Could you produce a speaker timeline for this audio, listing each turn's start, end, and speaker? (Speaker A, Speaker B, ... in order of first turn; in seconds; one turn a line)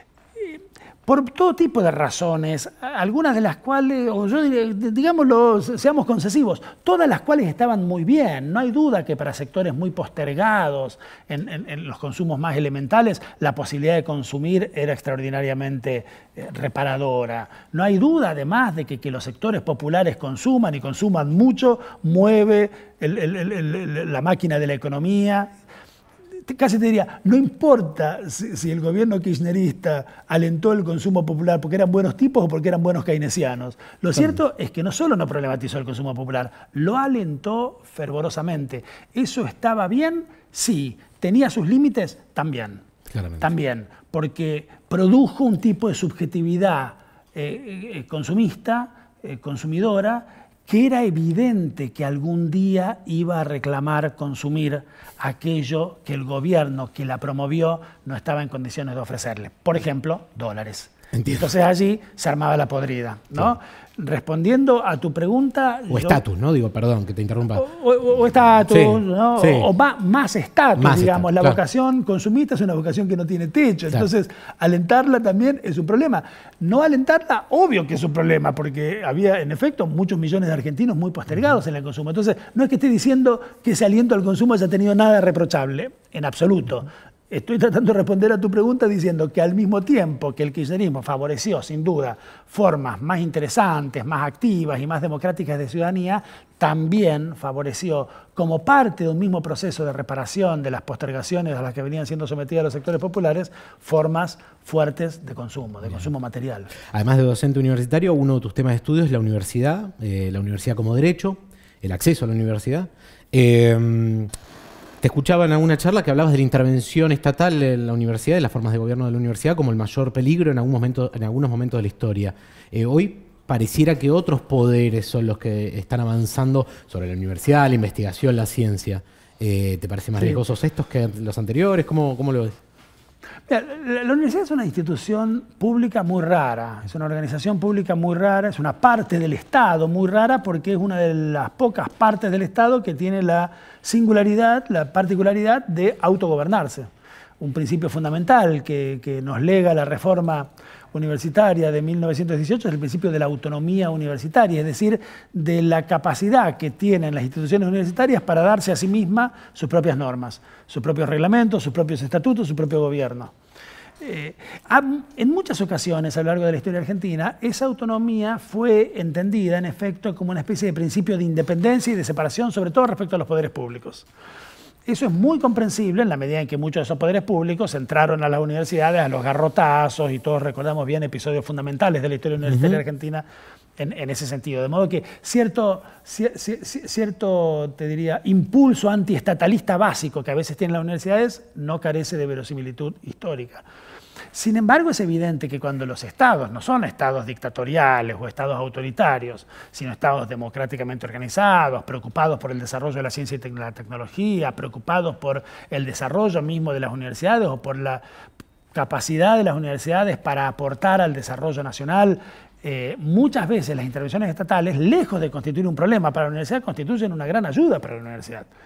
Speaker A: 0.4-25.5
Speaker A: 26.5-42.8
Speaker B: 43.1-43.5
Speaker A: 43.4-66.2
Speaker B: 61.1-61.4
Speaker B: 65.9-67.6
Speaker A: 67.5-106.7
Speaker B: 68.7-69.7
Speaker B: 70.8-71.6
Speaker B: 106.9-114.3
Speaker B: 115.0-132.6
Speaker A: 133.5-146.9
Speaker A: 147.4-163.3
Speaker A: 164.0-174.1
Speaker A: 174.8-183.2
Speaker B: 182.4-182.8
Speaker A: 183.8-193.6
Speaker A: 194.3-208.0
Speaker A: 208.7-218.5